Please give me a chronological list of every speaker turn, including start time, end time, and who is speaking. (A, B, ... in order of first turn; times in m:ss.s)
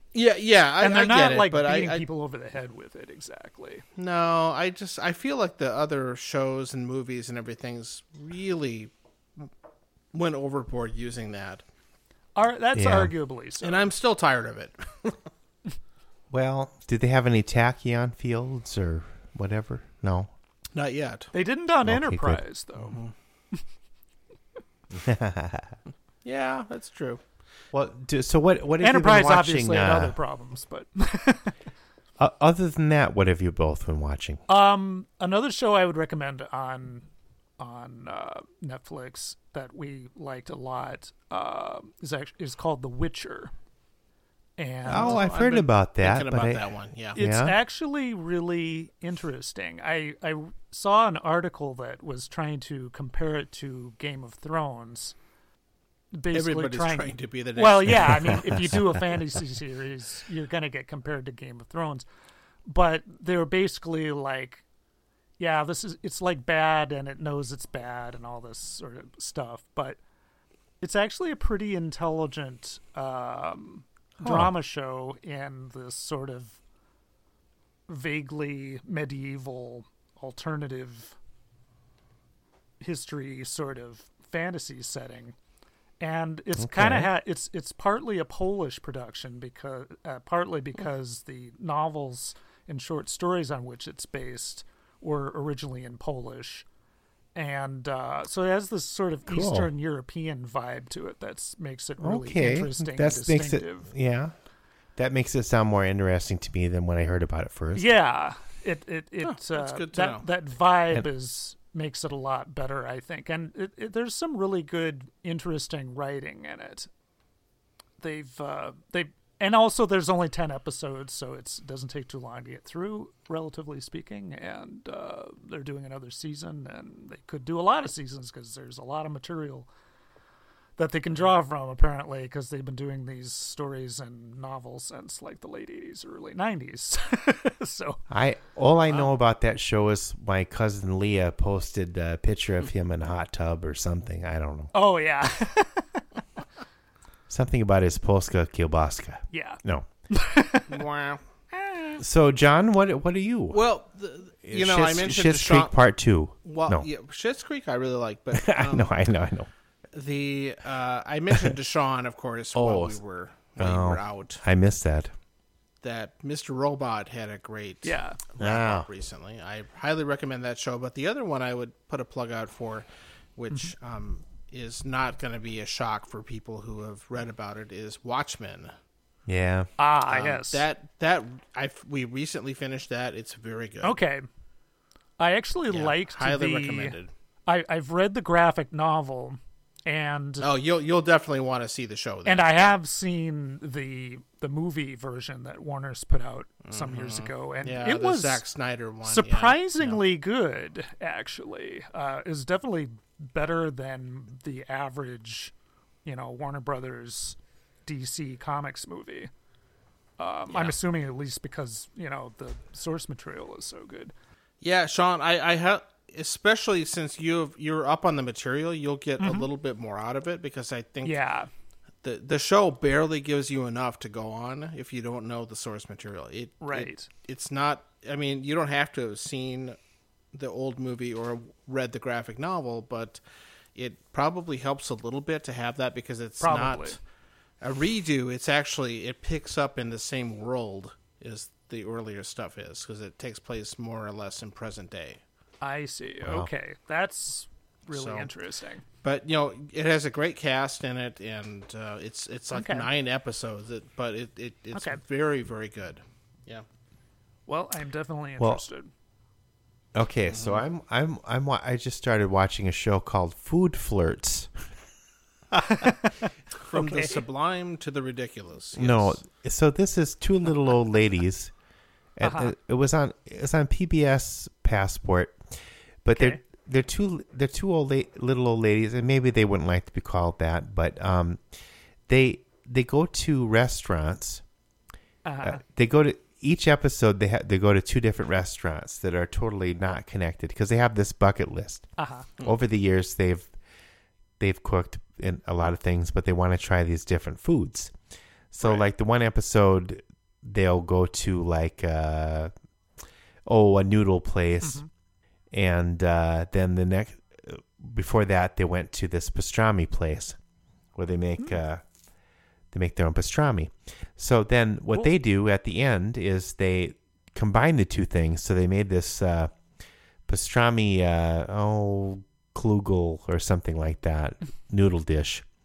0:00.1-0:02.0 A
0:00.8-0:03.8 B
0:04.0-0:09.5 A
0:10.1-0:11.6 A
0:12.4-0:13.9 B
0:12.7-0:13.1 C
0:13.6-0:15.3 A
0:16.3-0:20.3 C
0:20.7-0:21.3 A
0:21.3-0:23.0 B
0:21.8-0:22.4 C
0:22.9-0:23.1 A
0:24.9-0:25.7 C
0:26.2-0:27.2 A
0:27.7-0:30.2 C
0:28.8-0:31.5 B
0:32.2-0:34.4 C
0:34.5-0:37.0 B
0:37.6-0:43.5 B
0:44.6-0:45.2 B
0:44.8-0:47.2 A
0:44.8-0:47.6 C
0:47.1-0:55.1 B
0:56.1-1:02.0 B
0:56.3-0:58.6 A
1:02.7-1:04.6 B
1:05.4-1:10.0 B
1:10.8-1:16.6 B
1:14.2-1:14.5 C
1:17.9-1:21.1 B
1:22.8-1:25.3 B
1:26.0-1:36.6 B
1:26.6-1:27.1 C
1:37.3-1:43.9 B
1:39.3-1:39.7 C
1:42.0-1:44.3 C
1:45.0-1:47.9 C
1:47.7-1:56.9 B
1:49.2-1:50.2 A
1:58.0-2:09.7 B
2:10.8-2:18.0 B
2:18.1-2:24.7 C
2:24.7-2:26.0 B
2:27.3-2:29.9 C
2:29.3-2:30.8 B
2:30.7-2:31.2 A
2:31.5-2:32.0 B
2:32.0-2:33.6 C
2:33.5-2:35.8 A
2:34.4-2:36.9 C
2:36.4-2:38.9 A
2:38.3-2:39.5 C
2:39.9-2:44.4 A
2:42.5-2:43.0 C
2:43.6-2:45.1 C
2:45.8-2:58.7 A
2:47.8-2:48.2 B
2:48.4-2:48.9 C
2:59.3-2:59.7 C
2:59.8-3:00.6 B
3:00.1-3:04.0 A
3:03.8-3:04.2 B
3:05.2-3:07.0 B
3:05.7-3:07.1 A
3:07.5-3:10.5 B
3:10.4-3:12.7 A
3:12.2-3:18.4 B
3:16.6-3:20.0 A
3:19.0-3:25.5 B
3:26.0-3:29.3 B
3:30.2-3:34.1 B
3:30.5-3:30.7 A
3:34.6-3:41.2 A
3:39.2-3:39.5 B
3:41.0-3:41.5 B
3:42.0-3:49.8 A
3:46.6-3:47.1 B
3:50.3-3:53.2 A
3:53.8-3:57.0 A
3:56.4-3:57.0 B
3:57.6-4:05.2 A
4:05.6-4:08.8 B
4:06.2-4:06.5 C
4:07.9-4:08.3 A
4:09.0-4:16.6 A
4:12.5-4:12.9 B
4:14.7-4:15.0 B
4:17.5-4:18.9 B
4:19.9-4:24.5 C
4:20.3-4:20.6 A
4:25.6-4:26.1 B
4:26.5-4:29.2 A
4:26.7-4:27.2 B
4:28.7-4:31.5 C
4:32.2-4:35.4 C
4:32.2-4:32.5 B
4:36.0-4:41.4 C
4:36.1-4:36.4 B
4:42.1-4:44.4 C
4:45.2-4:45.6 B
4:45.4-4:51.8 C
4:52.0-4:52.3 B
4:52.4-4:53.5 C
4:54.4-4:57.9 C
4:58.5-5:02.5 C
5:03.4-5:04.8 C
5:04.6-5:04.9 B
5:05.5-5:10.4 C
5:11.0-5:11.8 C
5:12.7-5:19.5 C
5:20.3-5:25.4 C